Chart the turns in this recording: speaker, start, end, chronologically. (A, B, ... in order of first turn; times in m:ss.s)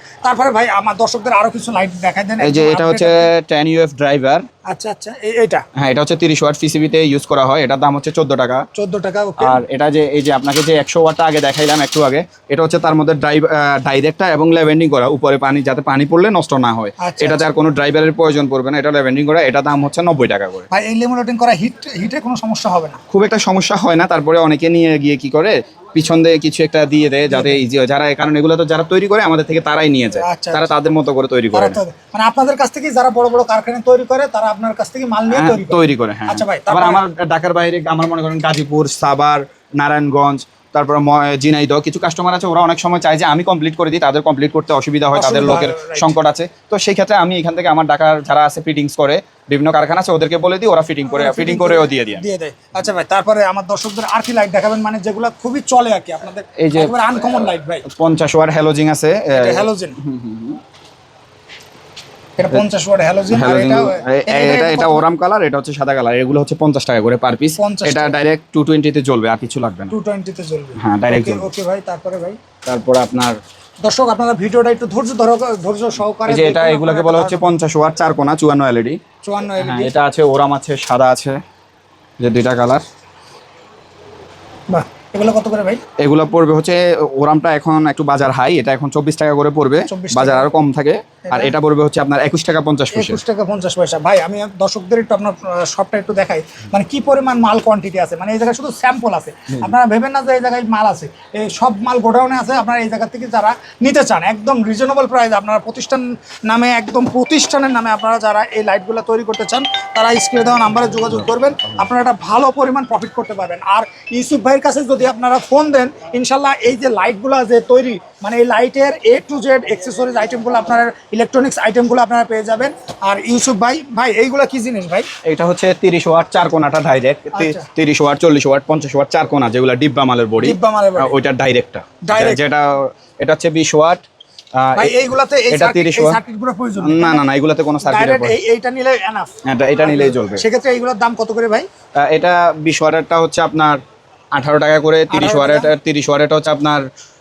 0:00.2-0:03.3 A
0:02.4-0:04.4 B
0:04.7-0:05.6 A
0:05.8-0:08.6 B
0:08.8-0:09.6 A
0:09.4-0:20.7 B
0:17.0-0:17.4 A
0:20.7-0:23.0 A
0:23.1-0:31.8 B
0:27.3-0:27.6 A
0:30.2-0:30.7 A
0:31.5-0:37.0 A
0:35.3-0:52.2 B
0:45.1-0:46.1 A
0:51.1-0:57.8 A
0:56.6-0:56.9 B
0:57.9-1:00.6 B
0:59.3-1:00.0 A
1:02.4-1:05.0 A
1:03.3-1:09.9 B
1:07.6-1:08.2 A
1:09.9-1:12.4 A
1:10.8-1:11.5 B
1:12.6-1:13.4 B
1:13.8-1:17.5 A
1:16.3-1:19.0 B
1:19.2-1:20.0 A
1:19.6-1:21.4 B
1:22.2-1:22.8 B
1:24.7-1:25.8 A
1:26.0-1:33.2 B
1:29.9-1:30.5 A
1:31.3-1:31.5 A
1:32.9-2:05.1 A
2:05.2-2:14.0 B
2:07.4-2:07.7 A
2:10.4-2:11.2 A
2:12.0-2:12.4 A
2:14.6-2:15.0 B
2:14.8-2:17.2 A
2:15.5-2:16.2 B
2:16.8-2:18.4 B
2:17.8-2:19.3 A
2:19.4-2:20.4 B
2:19.8-2:21.7 A
2:22.0-2:23.8 B
2:24.3-2:26.8 B
2:25.1-2:25.7 A